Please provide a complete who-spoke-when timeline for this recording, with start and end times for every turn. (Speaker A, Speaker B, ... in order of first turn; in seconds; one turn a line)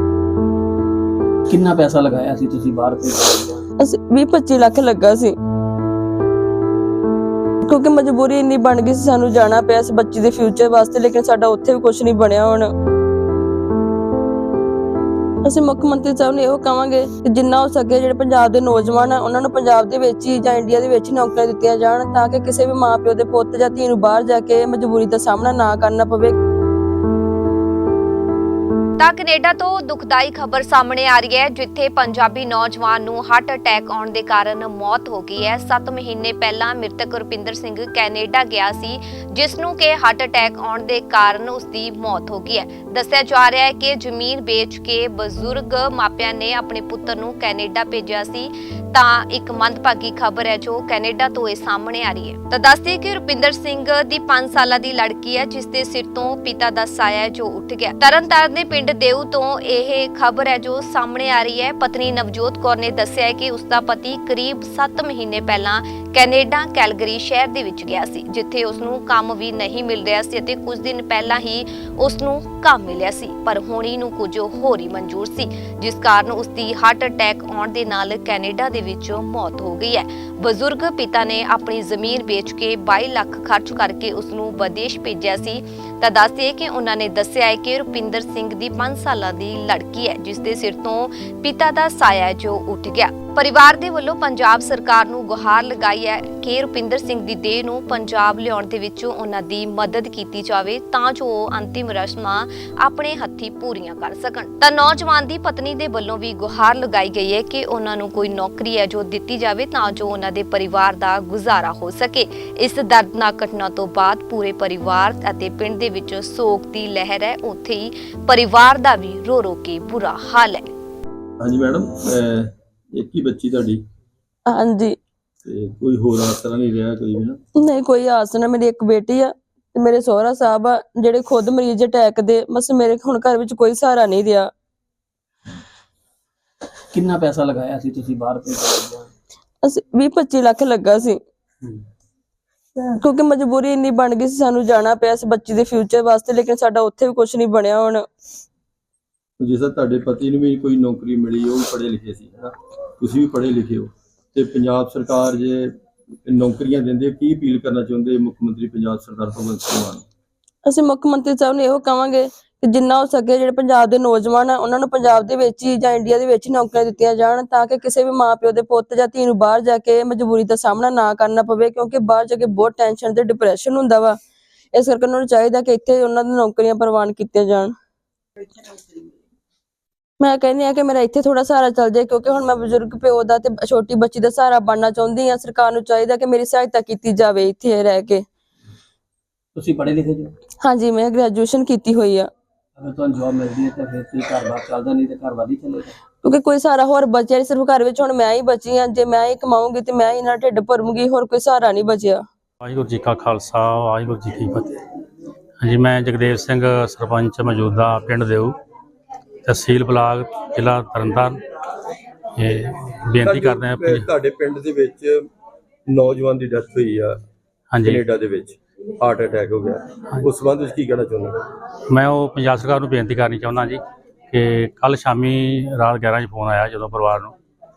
Speaker A: 1.5-3.6
Speaker B: 3.8-5.3
Speaker B: 7.7-12.7
Speaker B: 15.4-26.4
Speaker C: 29.0-120.7
Speaker D: 121.4-123.8
Speaker B: 124.5-125.0
Speaker D: 125.5-127.4
Speaker B: 127.6-134.5
Speaker A: 136.9-139.1
Speaker B: 139.6-141.2
Speaker B: 142.9-148.1
Speaker D: 149.4-155.7
Speaker D: 156.2-160.0
Speaker B: 160.7-174.2
Speaker B: 174.7-177.7
Speaker B: 180.2-188.2
Speaker A: 189.6-190.3
Speaker B: 190.6-192.3
Speaker A: 192.8-195.9
Speaker B: 196.2-202.2
Speaker E: 202.6-204.8
Speaker E: 205.6-208.6
Speaker E: 209.4-211.4
Speaker E: 212.4-214.1
Speaker D: 213.2-215.3
Speaker D: 215.9-217.2
Speaker E: 217.7-218.0
Speaker D: 217.8-221.4
Speaker E: 221.9-227.3